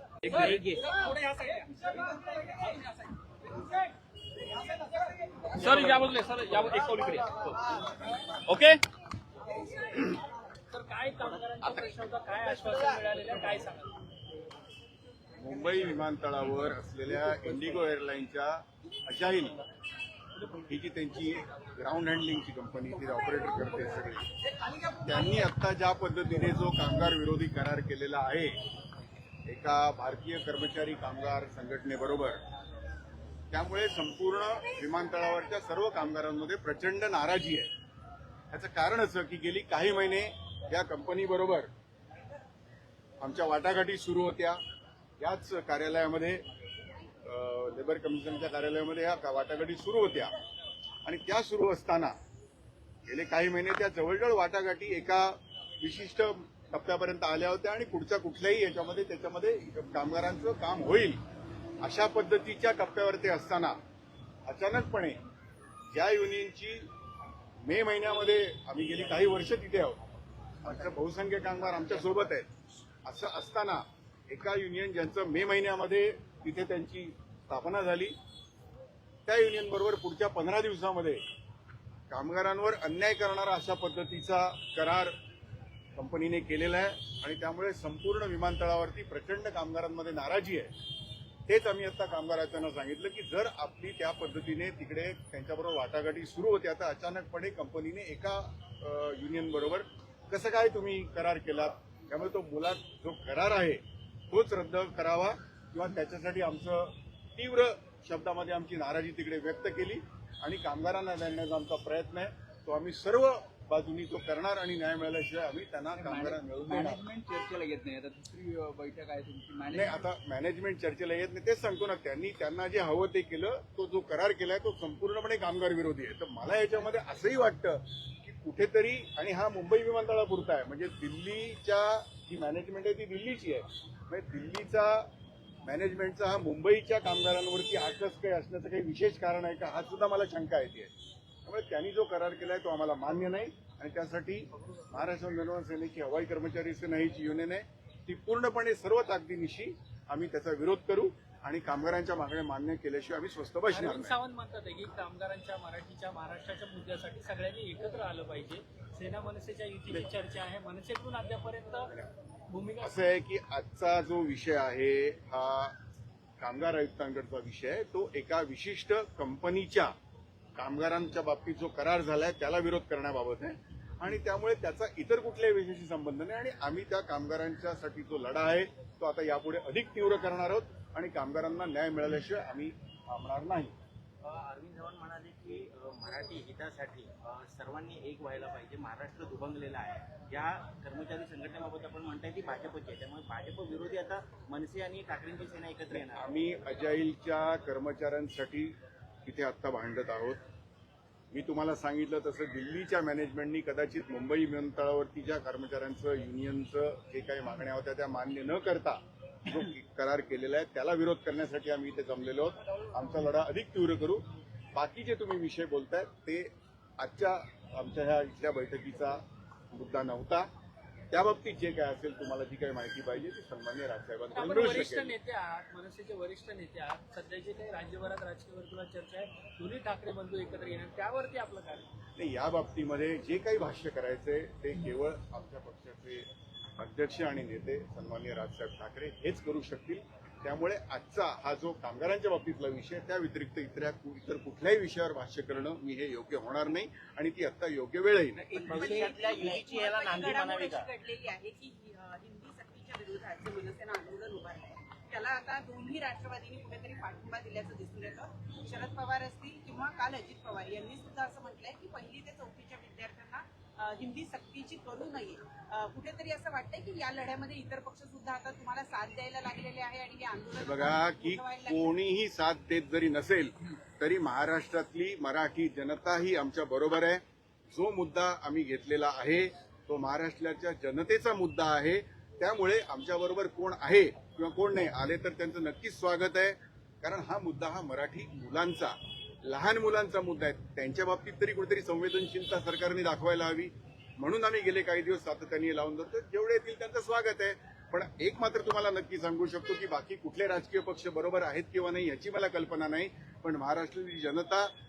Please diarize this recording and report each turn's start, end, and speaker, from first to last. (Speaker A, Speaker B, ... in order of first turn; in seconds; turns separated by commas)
Speaker A: 0.2-0.8, Speaker B: 5.6-7.3, Speaker B: 8.5-8.8, Speaker C: 10.7-13.9, Speaker D: 15.4-19.6, Speaker D: 20.6-24.2, Speaker D: 25.0-28.6, Speaker D: 29.4-32.4, Speaker D: 33.5-37.7, Speaker D: 38.5-41.7, Speaker D: 43.2-44.6, Speaker D: 45.2-46.4, Speaker D: 47.2-50.3, Speaker D: 51.0-52.1, Speaker D: 53.1-61.2, Speaker D: 61.8-63.8, Speaker D: 64.5-65.2, Speaker D: 65.9-66.9, Speaker D: 67.6-70.0, Speaker D: 70.6-72.5, Speaker D: 73.0-78.1, Speaker D: 79.2-81.2, Speaker D: 82.1-85.1, Speaker D: 86.0-90.7, Speaker D: 91.5-117.0, Speaker E: 115.9-120.1, Speaker D: 119.7-135.1, Speaker D: 135.6-140.9, Speaker D: 141.4-154.2, Speaker C: 153.7-161.9, Speaker C: 162.5-162.9, Speaker D: 162.8-165.8, Speaker D: 166.4-169.9, Speaker D: 170.6-183.7, Speaker A: 184.2-196.3, Speaker D: 195.9-200.4, Speaker D: 201.3-220.5, Speaker D: 221.1-225.1, Speaker C: 224.3-231.9, Speaker D: 232.2-236.3, Speaker D: 236.8-248.7, Speaker F: 248.6-271.9, Speaker A: 248.6-250.9, Speaker D: 270.6-304.7